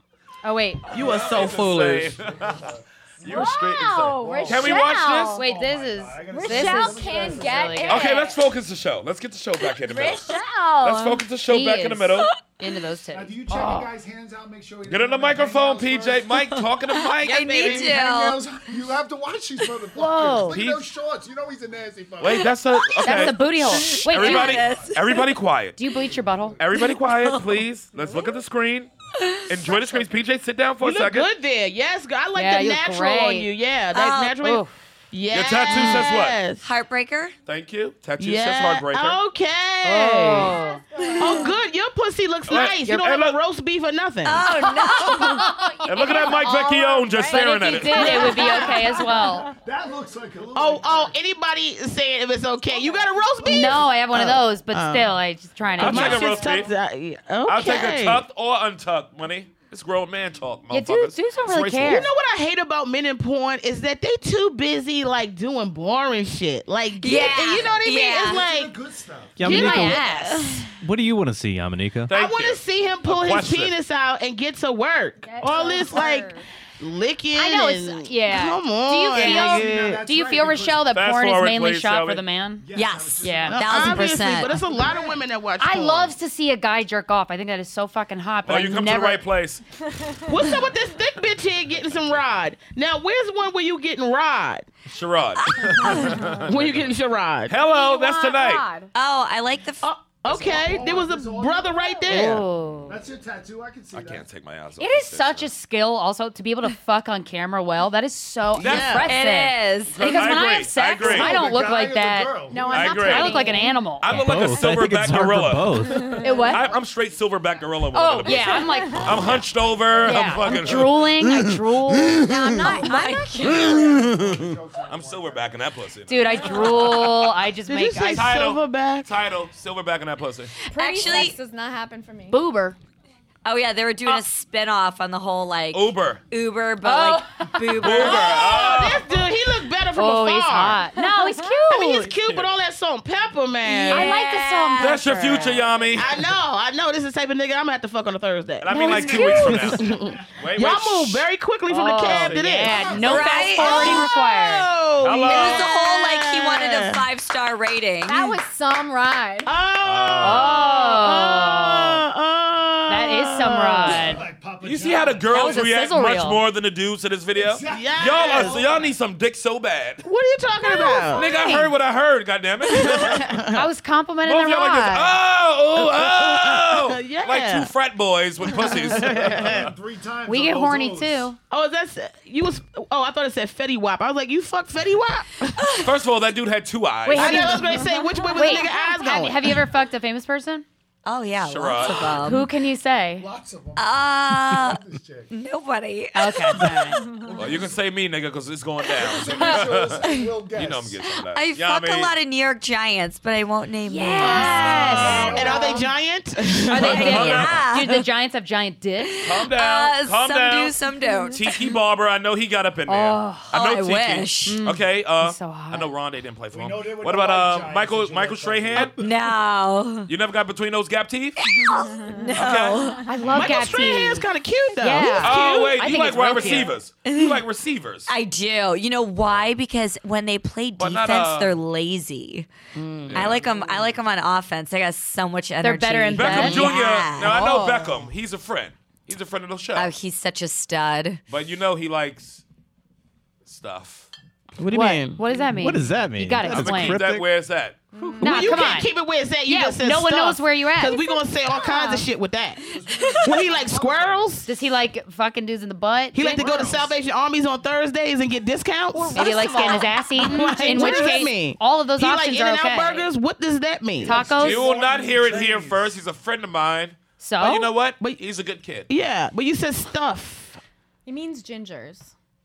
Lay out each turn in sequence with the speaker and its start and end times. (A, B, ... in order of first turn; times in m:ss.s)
0:00.4-0:01.0 A
0:00.9-0:02.2 B
0:00.9-0:02.6 C
0:01.2-0:01.6 D
0:02.1-0:03.5 D
0:03.2-0:05.4 C
0:03.2-0:05.4 E
0:04.2-0:07.9 D
0:05.4-0:08.2 A
0:06.3-0:08.4 E
0:07.9-0:12.3 C
0:09.8-0:11.2 E
0:11.5-0:13.9 A
0:13.1-0:16.4 D
0:14.8-0:17.9 C
0:17.1-0:18.4 F
0:17.3-0:17.9 B
0:17.6-0:22.6 D
0:19.9-0:20.6 A
0:20.5-0:20.8 C
0:22.2-0:25.8 C
0:22.8-0:25.4 F
0:23.0-0:24.6 A
0:24.4-0:25.0 D
0:25.8-0:26.6 A
0:26.0-0:26.7 D
0:26.6-0:28.9 C
0:26.7-0:27.6 F
0:29.2-0:29.8 F
0:29.5-0:31.3 C
0:30.8-0:36.6 B
0:32.3-0:33.5 A
0:33.9-0:34.4 F
0:34.4-0:34.7 A
0:35.3-0:36.4 C
0:35.7-0:37.3 F
0:37.4-0:39.2 C
0:38.2-0:40.5 B
0:39.8-0:40.8 A
0:40.9-0:41.4 D
0:41.2-0:44.5 B
0:41.2-0:41.5 E
0:42.5-0:43.4 C
0:44.2-0:45.6 F
0:45.1-0:49.4 E
0:45.8-0:48.5 C
0:47.3-0:49.5 A
0:48.0-0:48.6 B
0:48.9-0:51.2 D
0:50.5-0:55.1 B
0:52.7-0:53.4 E
0:53.4-0:56.5 A
0:53.5-0:53.8 D
0:55.8-0:56.7 C
0:55.8-0:58.2 B
0:57.4-1:02.1 C
1:00.7-1:02.1 A
1:01.8-1:08.7 B
1:07.0-1:08.4 F
1:07.1-1:09.5 D
1:09.4-1:10.1 G
1:09.4-1:10.6 A
1:09.5-1:10.0 B
1:09.8-1:10.7 F
1:10.7-1:12.1 G
1:12.1-1:13.7 C
1:12.1-1:19.7 B
1:15.2-1:16.4 E
1:15.6-1:16.0 D
1:17.3-1:22.7 A
1:19.2-1:20.9 D
1:20.9-1:22.2 C
1:22.6-1:25.2 D
1:22.7-1:24.5 F
1:23.2-1:23.6 A
1:23.5-1:26.1 B
1:25.6-1:29.2 A
1:28.4-1:29.6 C
1:30.3-1:34.7 B
1:34.9-1:36.9 C
1:35.4-1:36.3 F
1:36.4-1:37.5 B
1:37.5-1:38.7 C
1:37.5-1:38.9 E
1:38.9-1:39.9 F
1:39.8-1:42.4 B
1:40.3-1:42.1 D
1:42.1-1:43.0 A
1:42.8-1:44.2 D
1:43.9-1:45.5 C
1:44.8-1:54.1 A
1:48.5-1:49.1 B
1:48.6-1:49.0 C
1:49.0-1:50.3 F
1:49.9-1:51.3 C
1:51.0-1:53.0 D
1:52.5-1:53.9 E
1:52.7-1:53.4 C
1:54.0-2:01.5 C
1:54.1-1:56.1 G
1:56.1-1:56.6 E
1:56.2-1:56.6 A
1:57.9-1:59.3 A
1:58.3-1:59.3 E
1:58.9-2:01.1 D
2:00.0-2:02.6 A
2:02.2-2:03.6 E
2:02.6-2:04.0 F
2:02.6-2:05.6 D
2:03.4-2:07.2 C
2:06.1-2:08.3 A
2:07.6-2:09.1 B
2:08.0-2:10.5 C
2:10.7-2:12.4 E
2:10.8-2:11.4 F
2:12.3-2:12.8 A
2:13.4-2:18.7 F
2:15.7-2:16.2 C
2:16.8-2:18.6 A
2:17.8-2:19.2 C
2:18.0-2:20.8 B
2:20.0-2:22.1 A
2:21.0-2:21.5 E
2:21.7-2:24.1 B
2:22.1-2:22.5 C
2:23.7-2:25.2 F
2:23.9-2:25.8 A
2:24.8-2:26.3 C
2:25.9-2:32.8 B
2:28.6-2:31.2 C
2:28.7-2:29.8 A
2:31.7-2:34.7 A
2:32.0-2:33.6 C
2:32.9-2:34.1 F
2:33.5-2:37.0 B
2:35.0-2:35.7 C
2:35.2-2:38.4 F
2:38.0-2:39.5 E
2:39.4-2:44.0 B
2:39.8-2:40.6 C
2:40.2-2:42.0 A
2:42.9-2:44.2 A
2:43.8-2:45.7 D
2:44.6-2:50.0 C
2:45.3-2:46.4 A
2:47.3-2:48.9 D
2:47.6-2:48.6 B
2:50.0-2:51.3 B
2:50.7-2:51.7 A
2:51.1-2:53.4 C
2:52.7-2:53.7 B
2:53.5-2:55.2 A
2:54.2-2:59.7 C
2:55.8-2:57.7 B
2:58.4-2:59.6 B
2:58.9-3:01.3 D
3:00.3-3:01.4 A
3:01.5-3:05.8 B
3:05.6-3:05.9 F
3:05.8-3:07.6 C
3:07.0-3:10.6 A
3:07.1-3:09.5 B
3:07.8-3:08.6 E
3:11.0-3:12.5 F
3:11.4-3:12.2 C
3:12.2-3:13.2 A
3:13.2-3:15.3 D
3:13.8-3:14.8 F
3:15.3-3:17.0 F
3:16.1-3:17.0 A
3:17.0-3:17.3 E
3:17.3-3:17.8 D
3:17.4-3:22.1 C
3:19.0-3:21.0 D
3:21.3-3:25.7 F
3:23.8-3:25.9 A
3:24.2-3:27.4 B
3:24.7-3:25.8 D
3:25.3-3:25.9 E
3:26.7-3:29.1 A
3:26.7-3:28.0 F
3:26.9-3:27.6 C
3:29.0-3:31.6 F
3:29.2-3:30.8 C
3:31.3-3:39.0 C
3:32.9-3:33.5 A
3:33.5-3:34.6 F
3:34.4-3:35.9 A
3:36.5-3:38.9 D
3:38.8-3:40.1 F
3:40.1-3:41.4 C
3:41.4-3:43.0 F
3:42.3-3:43.0 C
3:43.1-3:44.2 A
3:43.3-3:45.8 B
3:44.8-3:46.8 A
3:45.2-3:48.1 C
3:47.1-3:47.4 F
3:48.1-3:52.5 F
3:50.8-3:51.5 C
3:52.7-3:53.2 B
3:53.1-3:54.0 C
3:53.1-3:57.6 F
3:55.6-3:57.9 A
3:56.1-3:59.9 C
3:59.7-4:01.2 F
4:01.3-4:02.4 C
4:03.4-4:04.1 C
4:04.6-4:05.2 B
4:04.7-4:07.0 A
4:05.5-4:07.3 G
4:06.4-4:07.8 C
4:07.9-4:08.8 E
4:08.2-4:12.6 B
4:08.2-4:08.9 A
4:09.4-4:11.0 A
4:11.7-4:12.0 E
4:12.6-4:14.3 D
4:13.2-4:14.5 B
4:14.4-4:16.7 A
4:16.1-4:24.2 B
4:16.4-4:16.9 D
4:18.9-4:19.2 D
4:19.1-4:23.0 A
4:19.2-4:20.9 E
4:24.0-4:26.0 D
4:24.0-4:24.6 A
4:24.3-4:28.9 C
4:27.2-4:27.7 A
4:28.9-4:30.6 B
4:31.0-4:32.1 E